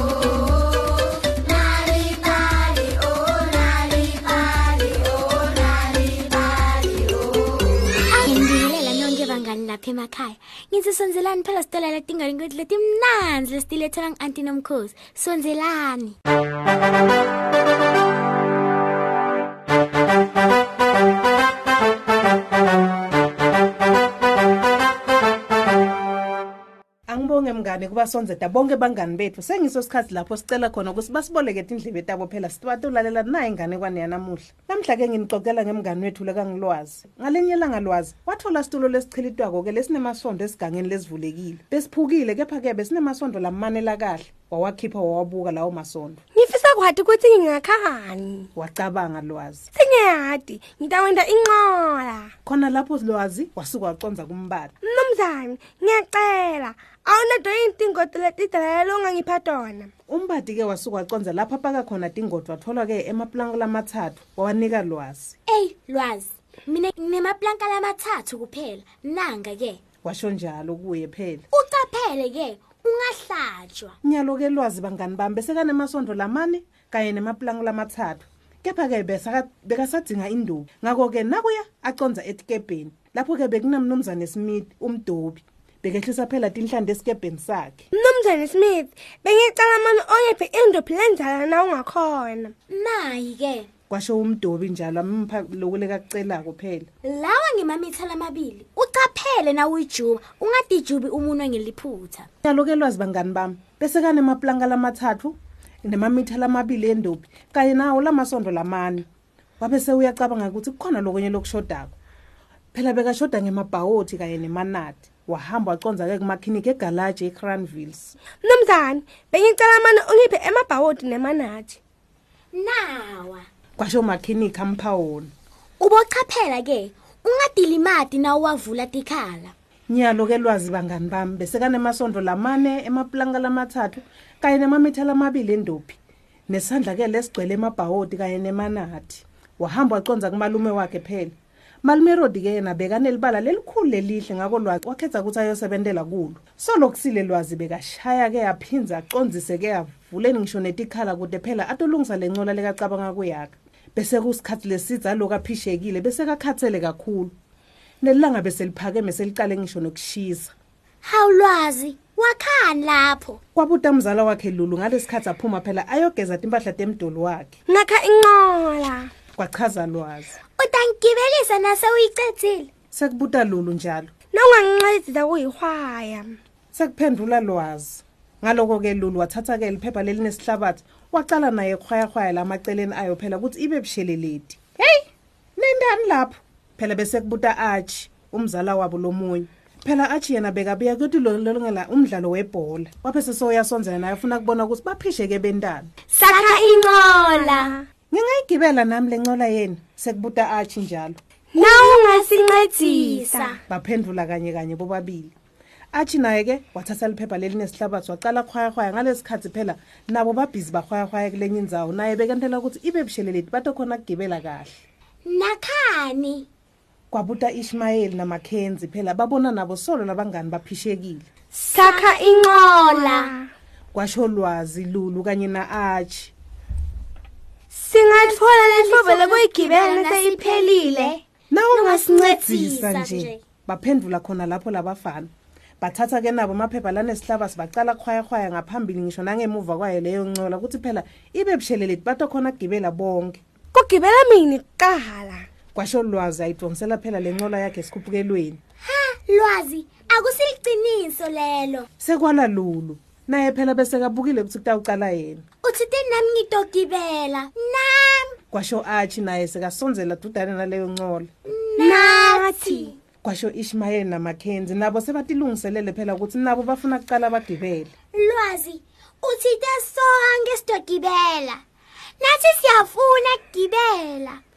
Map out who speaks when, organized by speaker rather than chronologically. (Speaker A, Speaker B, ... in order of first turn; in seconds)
Speaker A: 1.8-6.9, 8.1-16.2, 65.5-69.8, 71.5-74.0, 92.7-93.7, 97.0-102.3, 122.5-123.5, 125.8-129.5, 161.0-163.4, 170.6-172.7, 196.2-197.7, 201.6-203.6, 215.3-216.5, 221.7-223.3, 228.1-231.2, 231.7-233.4, 248.8-251.9, 255.6-258.4, 261.5-262.9, 268.1-271.6, 272.2-274.4
Speaker B: 27.1-46.2, 48.5-49.7, 52.5-54.7, 60.1-65.4, 70.0-71.5, 74.0-87.8, 93.9-96.9, 102.4-109.1, 109.6-111.9, 112.7-118.2, 123.8-125.3, 129.9-136.0, 136.5-157.3, 158.0-160.5, 163.6-167.6, 169.4-170.4, 172.9-174.1, 176.7-185.1, 185.6-195.9, 198.1-201.2, 203.7-205.3, 205.9-214.8, 217.1-221.3, 223.9-226.3, 231.5-243.4, 245.7-248.6, 252.0-255.4, 258.5-261.3, 263.2-267.9
Speaker C: 46.4-48.5, 49.7-52.3, 54.8-59.9, 87.9-92.5, 118.4-121.8, 167.7-169.1, 174.3-176.4, 196.1-197.8, 201.5-203.6, 221.5-223.5, 227.7-231.1, 231.9-232.4, 243.7-245.5, 261.8-263.0